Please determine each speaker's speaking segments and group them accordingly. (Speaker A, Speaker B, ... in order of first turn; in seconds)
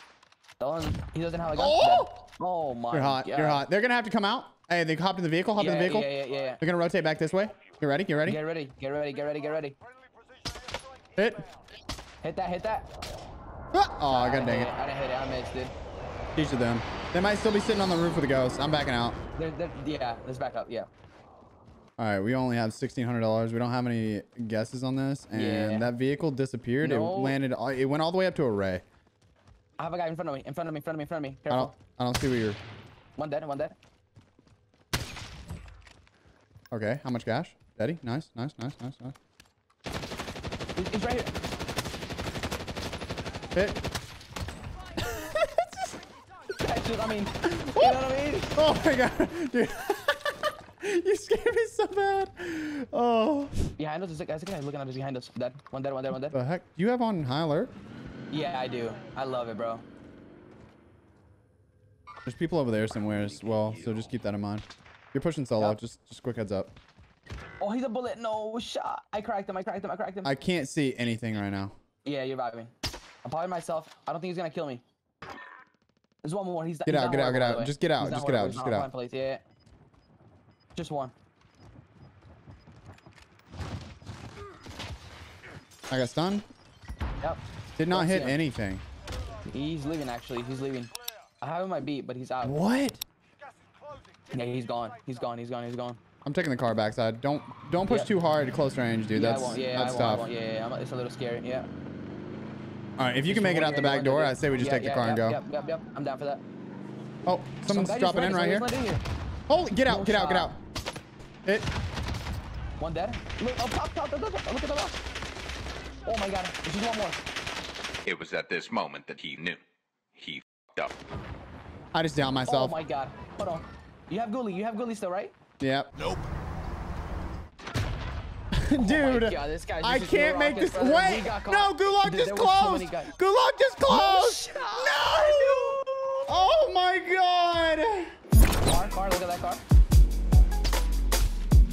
Speaker A: 0.6-3.6, 5.5-6.6, 8.2-9.8, 12.2-12.9, 14.1-15.7, 19.4-20.9, 25.3-25.9, 26.8-27.4, 29.8-31.7, 33.2-33.8, 40.8-41.3, 46.5-48.6, 53.8-56.4, 58.3-59.8, 67.6-70.3, 72.0-72.7, 73.2-74.8, 76.2-79.4, 80.7-81.1, 87.2-88.4, 89.5-92.6, 94.3-96.0, 99.1-101.7, 103.2-106.4, 107.7-109.0, 109.8-110.5, 112.8-115.0, 116.0-117.2, 122.5-125.3, 128.8-133.1, 133.9-136.3, 138.6-139.6
Speaker B: 1.5-2.2, 2.9-8.4, 11.2-11.4, 13.7-14.7, 16.3-19.2, 22.0-28.8, 31.5-32.6, 36.7-39.1, 43.5-43.8, 45.0-46.0, 47.4-48.0, 48.5-53.7, 56.3-57.7, 62.2-66.7, 70.2-71.7, 76.8-78.9, 85.9-86.4, 87.8-88.8, 92.4-93.0, 96.2-100.3, 103.0-105.4, 107.2-108.7, 109.5-110.6, 121.9-122.8, 125.6-125.9, 128.5-138.1
Speaker C: 118.0-119.6, 120.2-120.9, 126.0-126.2